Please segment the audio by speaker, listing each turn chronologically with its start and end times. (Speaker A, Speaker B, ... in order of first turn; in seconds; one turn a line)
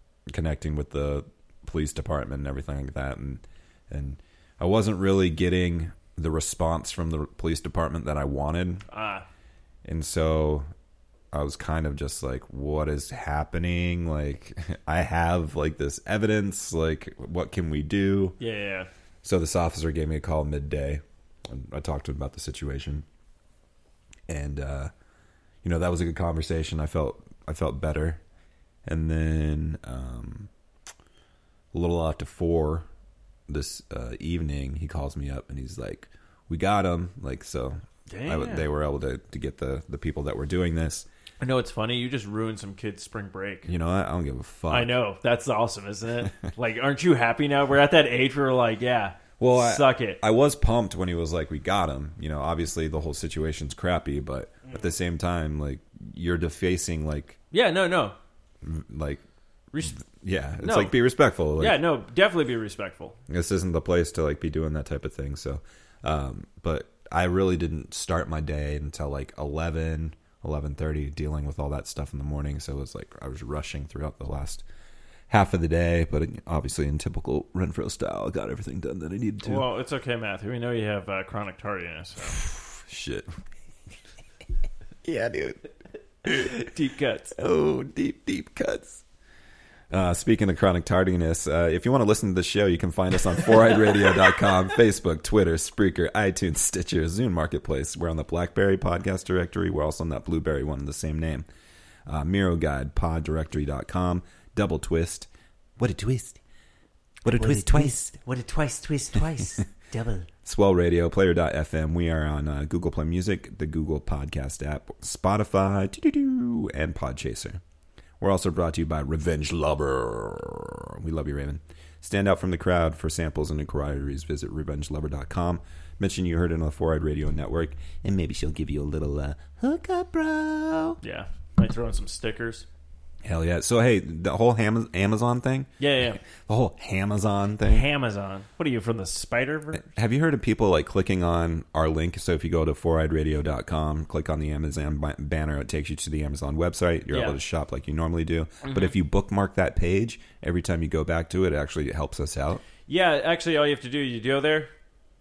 Speaker A: 0.3-8.8
Speaker B: 8.9-9.3
Speaker A: 9.8-10.7
Speaker A: 11.3-18.4
Speaker B: 18.4-18.9
Speaker A: 19.2-23.1
Speaker A: 24.3-24.9
Speaker A: 25.6-28.2
Speaker A: 28.9-30.5
Speaker A: 31.7-32.9
Speaker A: 33.5-41.1
Speaker B: 38.1-38.7
Speaker B: 41.4-43.7
Speaker A: 43.7-44.9
Speaker B: 44.7-50.2
Speaker A: 49.4-57.4
Speaker B: 57.5-58.1
Speaker A: 58.6-59.2
Speaker B: 59.7-60.0
Speaker A: 59.8-61.8
Speaker B: 60.6-61.0
Speaker B: 61.6-63.2
Speaker A: 63.3-74.6
Speaker A: 75.3-79.7
Speaker B: 79.4-82.4
Speaker A: 82.4-83.3
Speaker A: 85.0-85.7
Speaker A: 86.3-86.5
Speaker B: 86.3-87.3
Speaker A: 87.3-89.0
Speaker A: 89.9-101.5
Speaker A: 102.1-106.4
Speaker A: 107.2-109.7
Speaker C: 107.3-110.2
Speaker A: 110.5-117.6
Speaker A: 118.2-131.0
Speaker B: 131.0-132.7
Speaker A: 133.2-135.7
Speaker B: 135.8-136.2
Speaker A: 136.2-137.9
Speaker B: 137.7-139.9
Speaker A: 139.8-152.6
Speaker B: 147.1-147.4
Speaker B: 148.6-148.9
Speaker B: 152.9-154.7